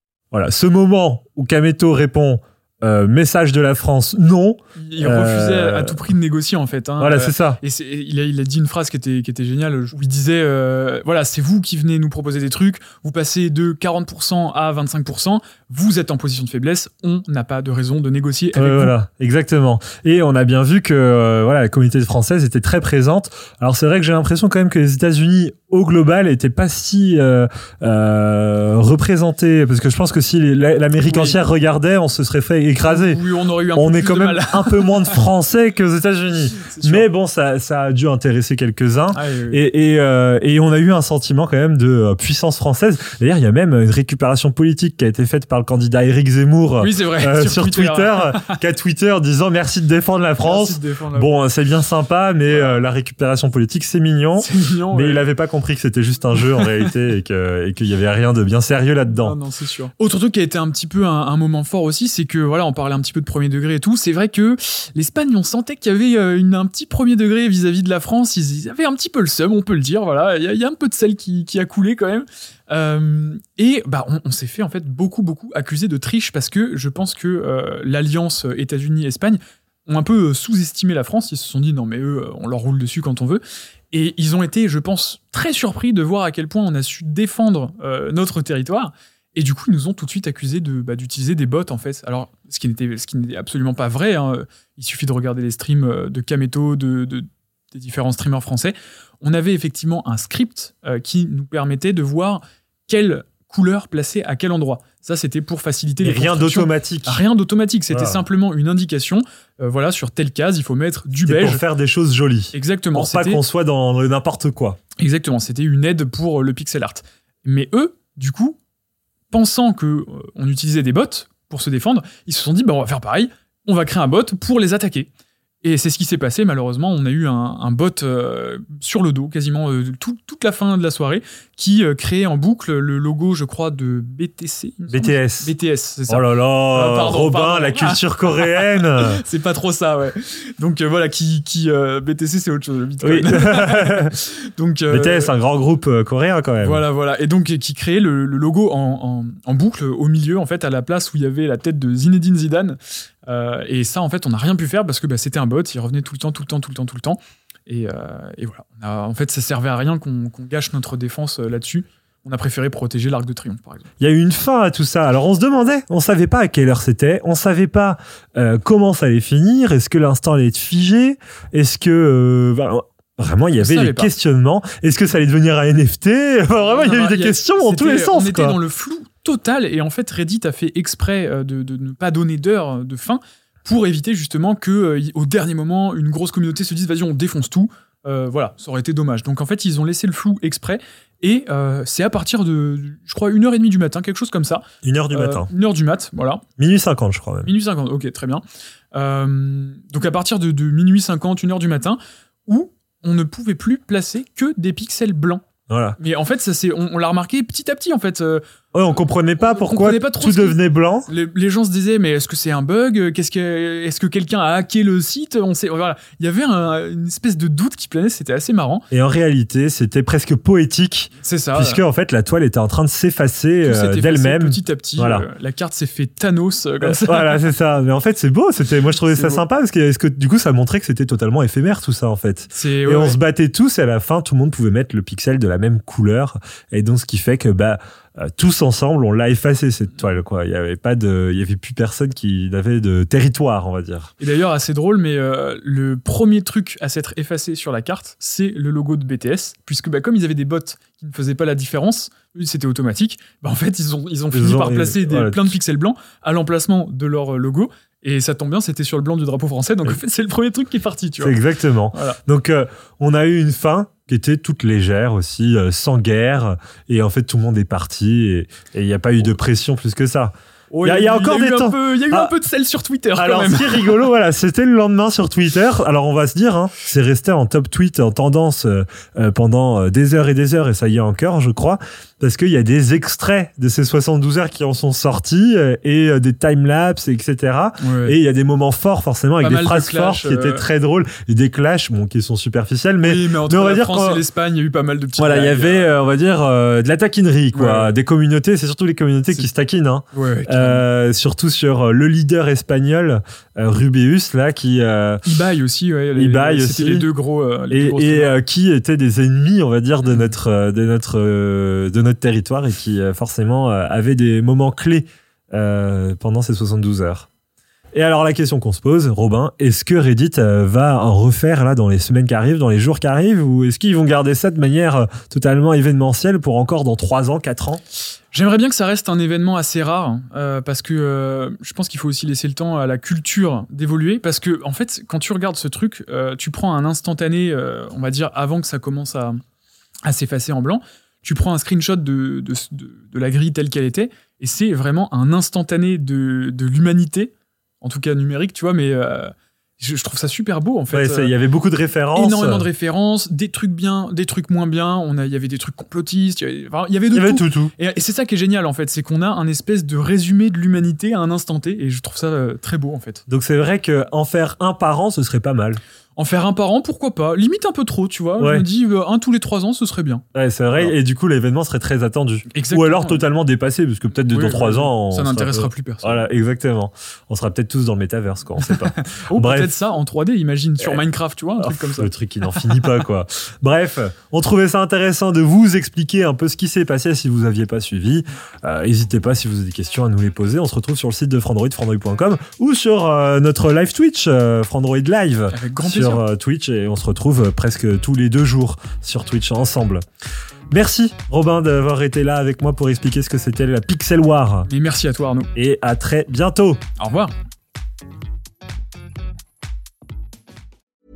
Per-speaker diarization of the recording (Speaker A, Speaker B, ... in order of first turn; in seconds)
Speaker A: 0.3-6.1, 7.0-7.6, 18.5-33.2, 33.7-59.4, 106.0-107.2, 107.9-108.2, 111.3-114.8, 134.9-135.5, 136.1-139.2, 143.0-144.1, 144.9-146.8, 164.0-178.6, 194.8-195.5, 196.6-197.5, 205.7-206.0, 208.7-211.1, 218.9-225.2, 226.8-244.1, 254.3-255.6, 261.2-270.3, 270.8-272.3, 273.2-294.2, 295.2-305.2, 306.1-307.1, 307.7-317.3, 317.9-327.8, 350.9-352.7, 357.1-357.7, 363.3-365.8, 368.4-368.7, 370.3-379.7, 381.6-400.0, 400.7-404.7, 405.6-406.8
Speaker B: 4.8-19.0, 31.0-31.4, 32.9-35.3, 36.6-37.1, 39.1-39.6, 46.8-48.6, 50.4-51.4, 52.5-52.8, 54.4-55.3, 56.4-56.9, 59.1-111.6, 112.5-113.4, 115.0-118.6, 119.3-125.1, 125.6-145.3, 146.6-163.8, 173.6-174.1, 176.6-196.4, 197.4-205.4, 206.0-208.4, 209.4-218.9, 221.2-221.8, 223.6-227.4, 229.1-229.4, 232.5-233.2, 244.2-262.2, 270.7-274.0, 287.8-288.2, 289.4-290.7, 293.0-295.9, 297.5-298.0, 300.1-300.9, 305.2-308.4, 310.1-310.3, 328.3-339.4, 340.1-351.4, 352.1-363.2, 366.2-371.0, 372.5-373.2, 374.1-376.2, 378.6-382.9, 395.5-396.2, 404.7-405.5, 407.0-407.3